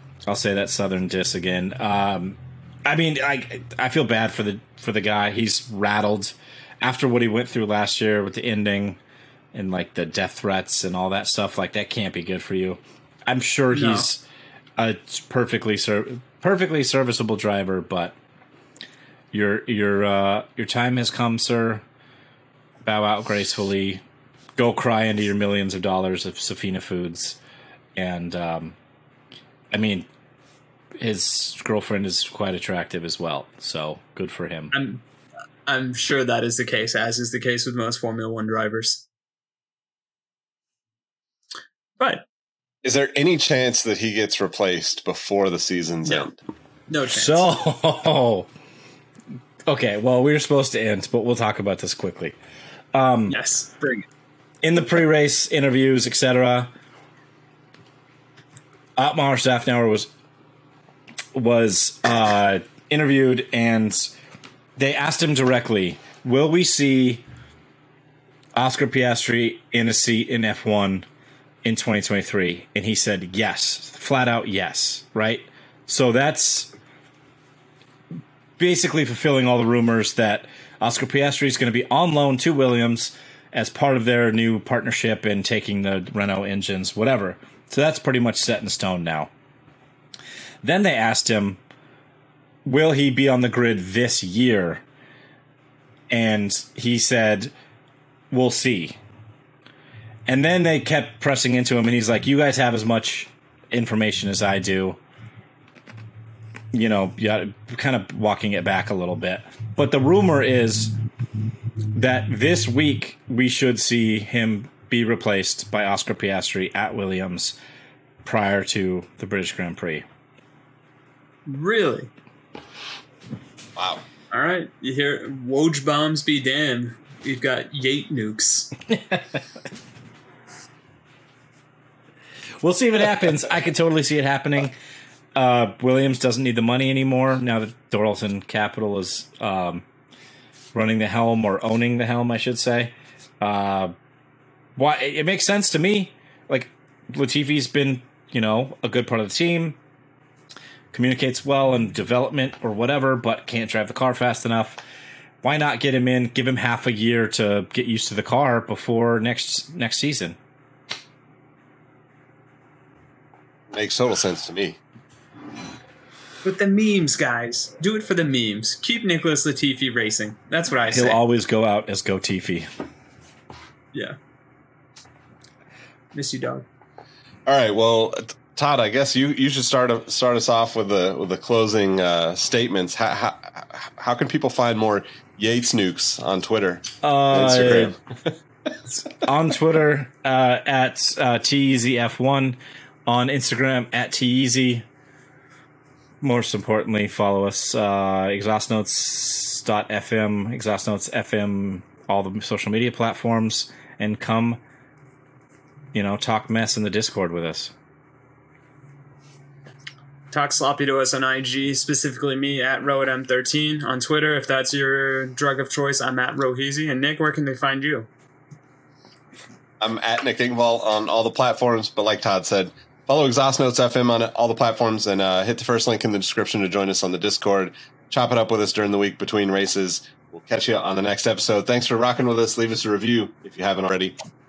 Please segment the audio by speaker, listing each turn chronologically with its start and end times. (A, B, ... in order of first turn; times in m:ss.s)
0:00.3-0:09.0 A
0:09.5-0:14.2 A
0:13.7-0:14.1 B
0:14.8-0:18.1 A
0:19.3-0:21.8 A
0:22.8-0:24.0 A
0:24.6-0:27.4 A
0:28.0-0:28.8 A
0:29.7-0:30.1 A
0:31.0-0:34.7 A
0:34.7-0:35.0 B
0:35.6-0:39.0 B
0:42.0-0:42.2 B
0:42.8-0:46.4 C
0:46.9-0:47.6 B
0:47.1-0:48.5 A
0:49.7-0:52.4 A
0:52.9-0:53.4 A
0:53.3-0:54.0 B
0:54.6-0:56.7 A
0:59.0-1:00.1 A
1:01.3-1:04.1 A
1:04.8-1:07.2 A
1:08.6-1:11.1 A
1:11.6-1:16.7 A
1:18.6-1:29.3 A
1:30.6-1:31.6 A
1:32.6-1:34.8 A
1:36.1-1:37.5 A
1:38.3-1:39.0 A
1:40.3-1:45.0 A
1:46.7-1:50.9 A
1:51.9-1:57.6 A
1:58.2-2:00.0 A
2:01.5-2:02.1 B
2:03.8-2:04.0 C
2:04.3-2:08.7 B
2:09.0-2:09.4 A
2:12.6-2:14.7 A
2:15.3-2:19.8 A
2:20.7-2:23.9 A
2:24.8-2:29.8 A
2:30.9-2:34.8 A
2:35.4-2:40.4 A
2:43.7-2:44.8 C
2:46.4-2:51.2 B
2:50.9-2:52.7 A
2:56.1-2:56.6 B
2:57.4-3:08.3 C
3:07.0-3:07.9 A
3:09.0-3:14.8 A
3:16.2-3:24.6 A
3:25.9-3:27.7 A
3:30.3-3:38.1 B
3:39.8-3:54.1 C